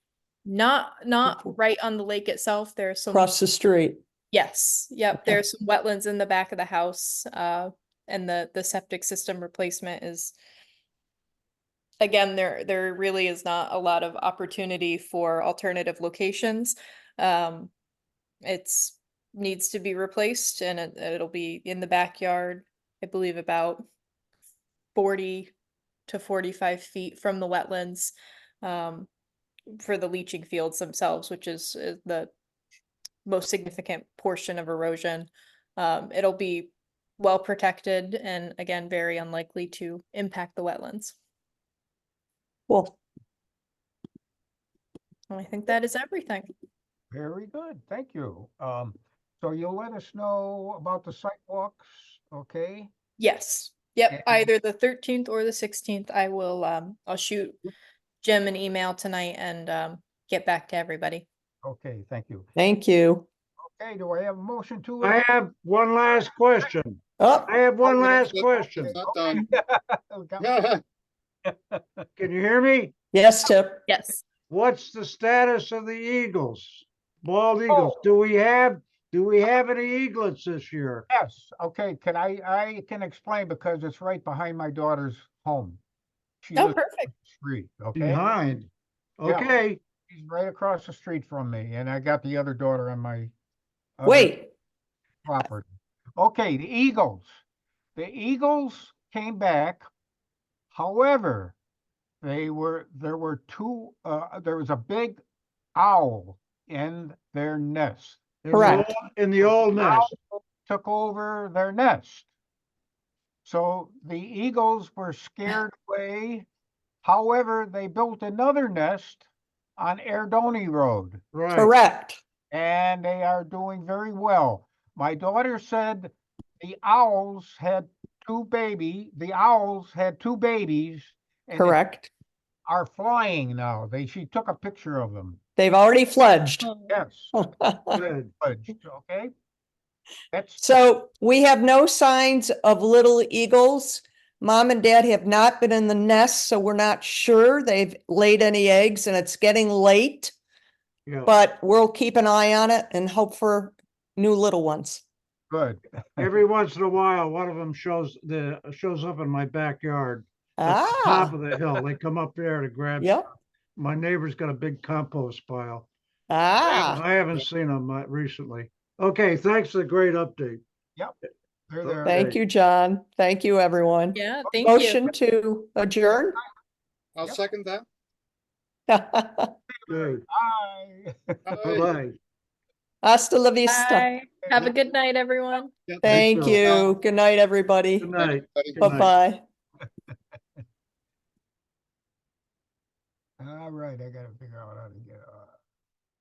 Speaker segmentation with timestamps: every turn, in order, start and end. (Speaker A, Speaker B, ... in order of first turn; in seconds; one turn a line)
Speaker A: 0.5-3.3
Speaker B: 3.1-4.0
Speaker A: 4.3-10.3
Speaker A: 12.0-17.7
Speaker A: 18.4-23.8
Speaker A: 24.9-25.5
Speaker A: 26.1-29.1
Speaker A: 29.7-32.3
Speaker A: 33.2-41.2
Speaker B: 42.7-43.0
Speaker A: 45.3-46.5
Speaker C: 47.1-52.9
Speaker A: 53.2-57.6
Speaker C: 54.1-54.5
Speaker A: 58.2-61.3
Speaker C: 61.6-62.5
Speaker B: 62.6-63.3
Speaker C: 63.6-65.2
Speaker D: 65.0-69.0
Speaker B: 67.2-67.5
Speaker E: 67.8-69.5
Speaker C: 68.8-70.5
Speaker E: 70.4-70.8
Speaker C: 71.5-72.0
Speaker D: 72.2-72.9
Speaker B: 73.1-73.8
Speaker A: 73.9-74.2
Speaker D: 74.5-81.1
Speaker C: 77.7-78.0
Speaker C: 81.1-85.8
Speaker C: 86.4-88.2
Speaker A: 86.5-87.1
Speaker D: 88.0-89.8
Speaker C: 89.2-89.6
Speaker C: 90.1-93.3
Speaker C: 94.0-94.3
Speaker B: 94.1-94.5
Speaker C: 95.2-95.7
Speaker C: 96.2-97.4
Speaker C: 98.0-99.9
Speaker C: 100.7-101.5
Speaker C: 102.2-105.2
Speaker C: 105.8-108.9
Speaker D: 108.4-110.1
Speaker B: 108.5-108.9
Speaker C: 109.5-112.3
Speaker C: 113.5-116.5
Speaker C: 117.0-119.3
Speaker C: 119.8-121.2
Speaker D: 121.3-121.7
Speaker B: 121.5-122.2
Speaker C: 122.5-131.8
Speaker B: 131.6-132.1
Speaker C: 132.7-135.4
Speaker B: 135.6-136.7
Speaker A: 136.6-136.9
Speaker C: 136.9-137.3
Speaker B: 137.3-138.0
Speaker D: 137.9-138.3
Speaker C: 138.3-139.3
Speaker C: 140.3-140.8
Speaker B: 140.6-150.3
Speaker D: 151.1-151.3
Speaker B: 151.3-155.0
Speaker C: 155.5-156.3
Speaker D: 156.2-163.2
Speaker B: 160.6-161.3
Speaker B: 163.0-163.3
Speaker D: 163.8-165.9
Speaker B: 166.3-167.0
Speaker D: 166.6-170.6
Speaker C: 171.7-172.3
Speaker D: 171.8-172.4
Speaker B: 172.1-176.4
Speaker A: 174.2-175.0
Speaker E: 177.2-177.9
Speaker B: 178.9-179.5
Speaker C: 179.7-181.6
Speaker D: 179.9-180.2
Speaker E: 181.5-182.0
Speaker D: 181.6-182.2
Speaker B: 183.0-184.1
Speaker A: 183.7-185.7
Speaker E: 185.9-186.9
Speaker B: 186.0-188.1
Speaker D: 186.0-186.7
Speaker D: 188.0-189.1
Speaker E: 188.1-189.2
Speaker B: 188.8-189.4
Speaker C: 193.4-195.5